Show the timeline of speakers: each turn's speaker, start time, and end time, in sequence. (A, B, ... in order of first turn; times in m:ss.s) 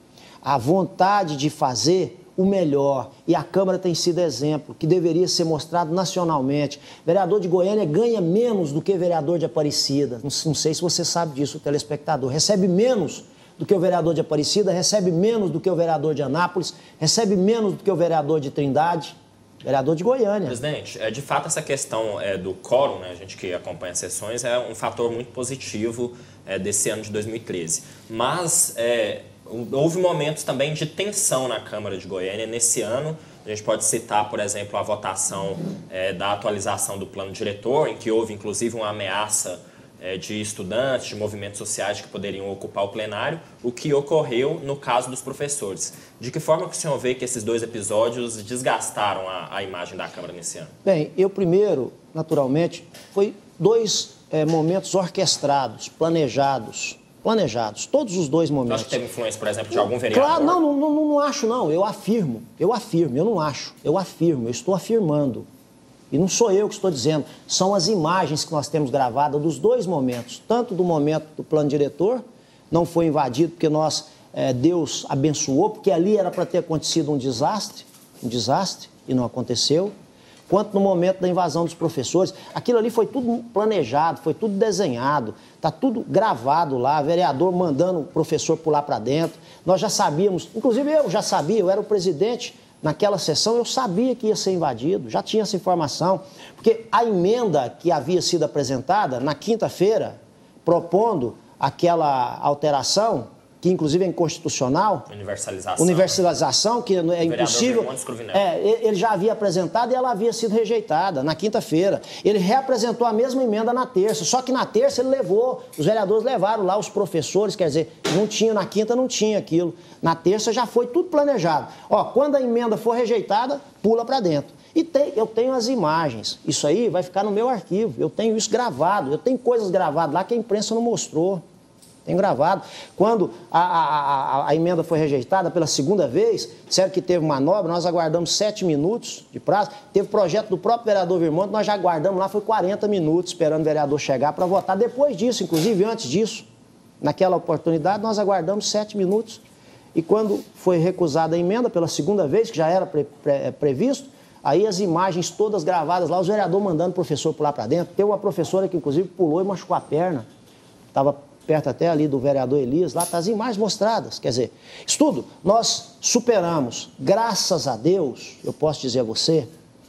0:00.4-0:20.6 A
0:20.5-0:50.7 B
0:50.8-0:59.0 A
0:58.7-1:00.6 B
0:59.8-1:05.5 A
1:06.1-1:19.9 A
1:20.5-1:45.1 A
1:45.1-1:46.2 B
1:45.8-2:11.4 A
1:47.2-1:48.5 B
2:12.0-2:26.5 A
2:27.0-2:29.4 A
2:30.0-2:40.3 A
2:40.9-2:49.5 A